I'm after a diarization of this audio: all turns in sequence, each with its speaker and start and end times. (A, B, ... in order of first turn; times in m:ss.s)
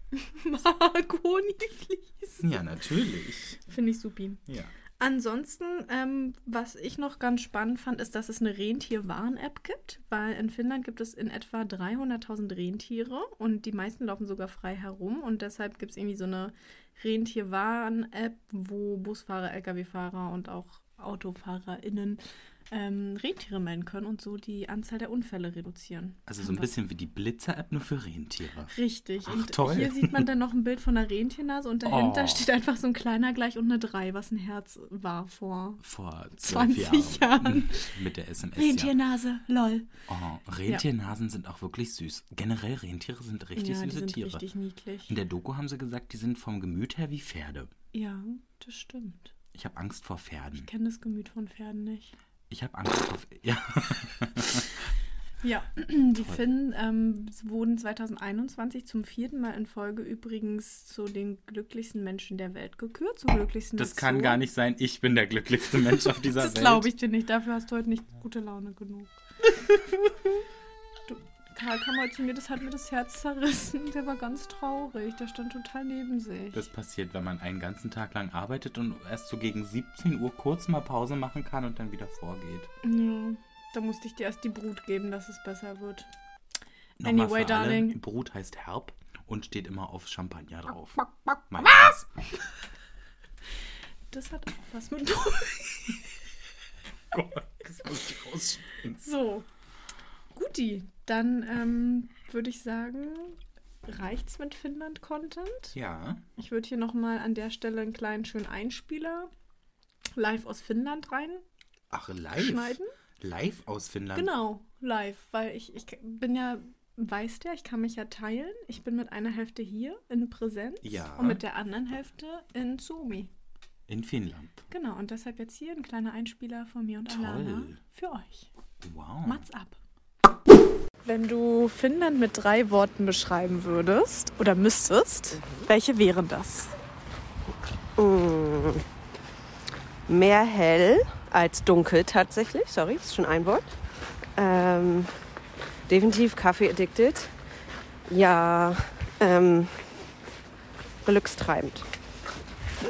0:00.2-0:02.6 A
0:02.4-0:03.6 B
0:03.7-0:04.4 A
0:04.5-0:04.7 B
0:05.0-0:26.7 A
0:26.3-0:28.7 B
0:28.7-0:35.8 A
0:29.2-0:30.3 B
0:31.8-0:32.5 B
0:35.8-0:38.9 B
0:36.4-0:37.9 A
0:38.6-0:39.9 A
0:40.1-0:44.4 B
0:43.6-0:45.2 A
0:45.1-0:47.7 B
0:47.9-0:49.3 A
0:49.5-0:50.7 B
0:50.6-0:52.1 A
0:52.5-0:54.7 B
0:55.4-1:04.4 A
1:03.8-1:06.9 B
1:06.4-1:09.1 A
1:09.6-1:10.1 A
1:11.1-1:16.7 A
1:16.5-1:22.7 B
1:22.8-1:26.1 A
1:27.0-1:32.1 B
1:27.0-1:28.0 A
1:34.1-1:36.0 A
1:37.1-1:39.0 B
1:39.0-1:39.4 A
1:40.3-1:45.7 A
1:45.7-1:46.2 B
1:46.4-1:49.3 A
1:50.1-1:51.4 A
1:51.9-1:54.3 B
1:52.4-1:52.9 A
1:54.1-2:03.3 A
2:00.8-2:01.4 B
2:03.9-2:04.6 B
2:04.7-2:08.5 A
2:07.1-2:07.8 B
2:08.8-2:09.4 B
2:09.2-2:09.8 A
2:11.0-2:16.7 A
2:15.3-2:15.7 C
2:18.0-2:18.8 C
2:20.1-2:23.7 C
2:24.4-2:25.1 C
2:25.9-2:27.3 C
2:28.1-2:29.8 C
2:31.0-2:31.9 C